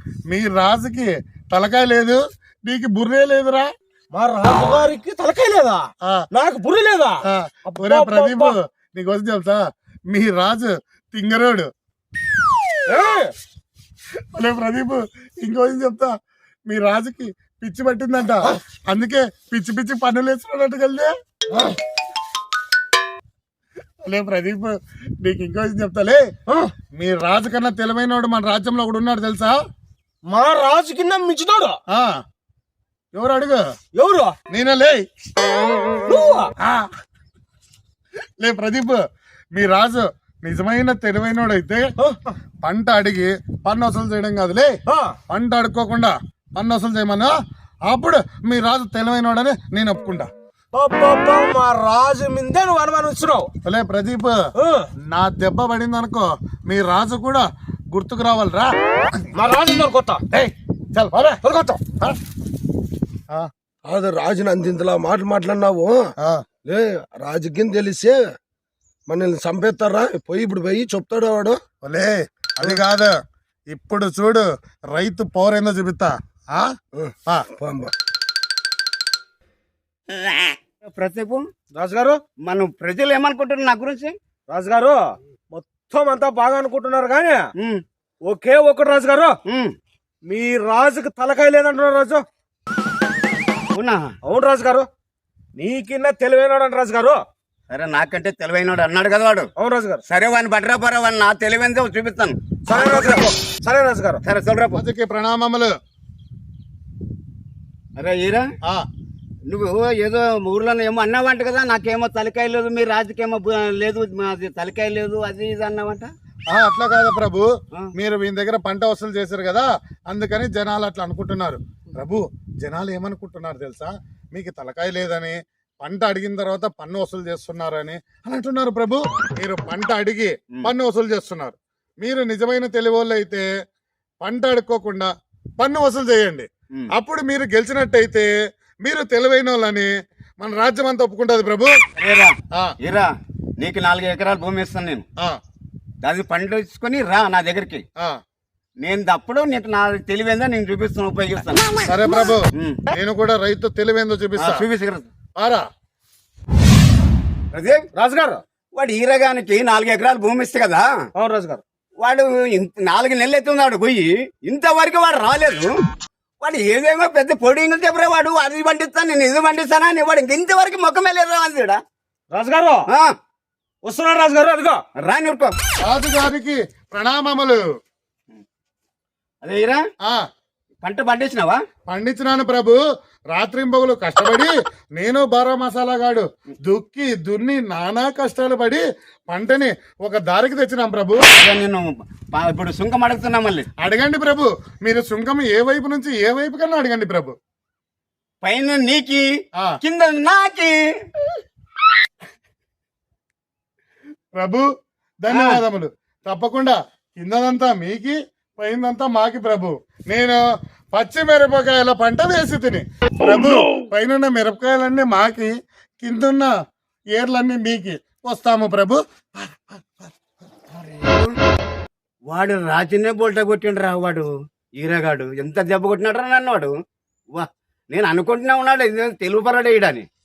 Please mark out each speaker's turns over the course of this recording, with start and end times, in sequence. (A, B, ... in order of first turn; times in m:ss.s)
0:00.3-0:03.7 A
0:04.1-0:08.6 B
0:07.3-0:11.7 A
0:12.8-0:13.3 B
0:14.3-0:16.1 A
0:16.7-0:21.1 A
0:24.0-0:26.2 A
0:26.9-0:29.5 A
0:30.2-0:31.8 B
0:31.9-0:32.2 A
0:33.1-0:33.6 A
0:34.0-0:34.4 B
0:34.5-0:35.0 A
0:36.0-0:36.5 B
0:36.6-0:36.9 A
0:38.4-0:39.0 A
0:39.5-0:41.9 A
0:42.0-0:42.4 B
0:42.6-0:44.7 A
0:44.9-0:45.2 B
0:45.3-0:47.3 A
0:47.9-0:50.3 A
0:50.7-0:53.5 B
0:53.6-0:54.3 A
0:54.6-0:54.9 B
0:55.0-0:58.7 A
0:59.3-1:00.2 B
1:00.3-1:01.4 A
1:01.4-1:01.9 B
1:03.8-1:06.0 C
1:06.7-1:08.2 C
1:09.1-1:11.6 C
1:11.8-1:13.2 A
1:13.7-1:16.7 A
1:16.9-1:17.9 C
1:20.8-1:21.4 D
1:21.7-1:22.2 B
1:22.4-1:24.1 D
1:24.5-1:27.4 B
1:27.6-1:27.8 D
1:28.2-1:29.4 B
1:29.4-1:29.7 D
1:30.2-1:32.2 B
1:33.7-1:34.1 D
1:34.2-1:34.9 B
1:35.5-1:37.2 B
1:37.7-1:39.5 D
1:39.6-1:40.0 B
1:40.0-1:43.3 D
1:42.6-1:44.2 B
1:44.2-1:44.8 D
1:44.7-1:45.7 A
1:48.0-1:48.4 D
1:49.5-1:56.1 D
1:56.5-2:13.4 A
2:14.2-2:18.3 A
2:18.8-2:21.8 A
2:22.0-2:25.0 D
2:26.0-2:27.8 D
2:28.8-2:31.7 D
2:31.9-2:34.6 A
2:32.5-2:32.8 D
2:34.4-2:35.1 D
2:35.4-2:35.6 A
2:37.5-2:37.8 D
2:37.9-2:38.4 B
2:38.8-2:40.9 D
2:41.2-2:41.6 B
2:42.0-2:45.7 D
2:46.4-2:51.8 D
2:52.3-2:52.9 B
2:53.8-2:54.8 B
2:55.0-2:55.5 D
2:55.8-2:57.6 A
2:59.4-2:59.8 D
3:00.8-3:01.6 D
3:01.9-3:02.8 A
3:03.3-3:11.2 A
3:11.3-3:13.7 D
3:13.8-3:17.3 A
3:18.4-3:19.2 D
3:19.8-3:20.8 D
3:24.3-3:24.6 A
3:25.2-3:30.4 A
3:25.3-3:25.6 D
3:30.9-3:36.5 A
3:37.1-3:40.1 A
3:40.8-3:41.3 D
3:42.3-3:46.7 D
3:47.3-3:50.0 D